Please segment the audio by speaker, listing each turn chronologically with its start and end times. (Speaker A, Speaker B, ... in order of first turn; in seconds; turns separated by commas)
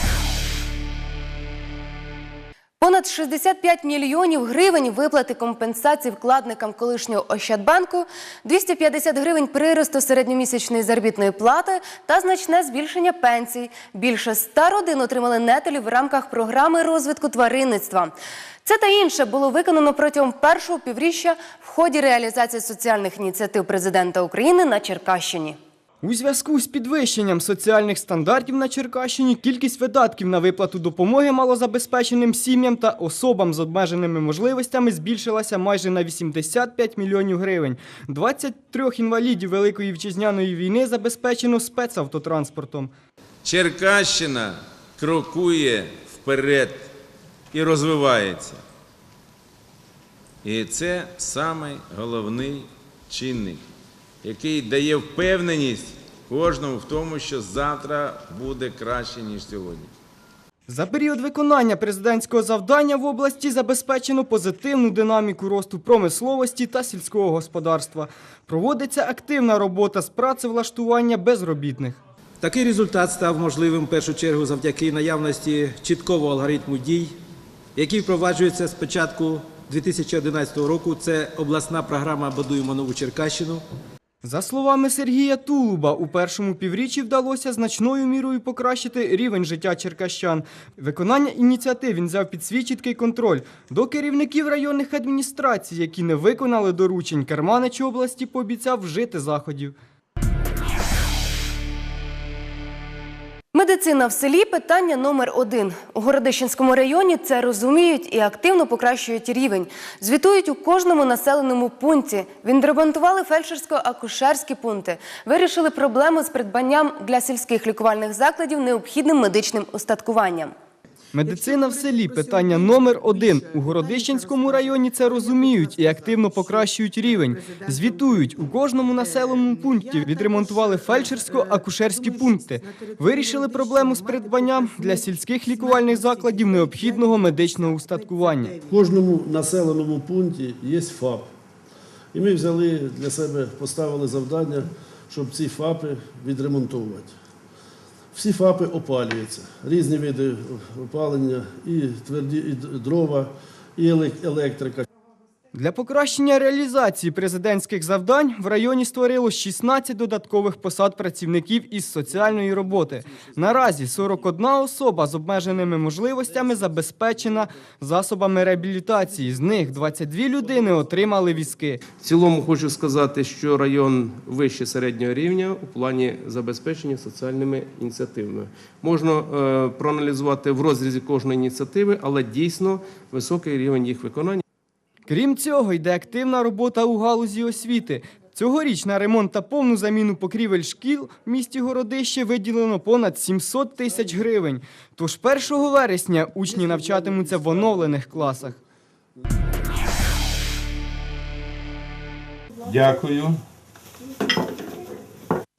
Speaker A: 2.8-18.1, Speaker A: 18.6-25.6, Speaker B: 26.0-42.9, Speaker C: 43.4-46.9, Speaker C: 47.5-48.6, Speaker C: 50.4-53.6, Speaker C: 54.2-59.9, Speaker B: 60.7-72.0, Speaker D: 72.4-77.2, Speaker D: 77.7-83.7, Speaker B: 84.2-99.7, Speaker A: 103.5-120.5, Speaker B: 121.1-138.6, Speaker E: 138.7-141.3, Speaker E: 142.1-147.1, Speaker E: 148.1-154.8, Speaker B: 155.5-171.8, Speaker F: 172.0-184.4, Speaker B: 185.1-198.6, Speaker C: 202.6-203.4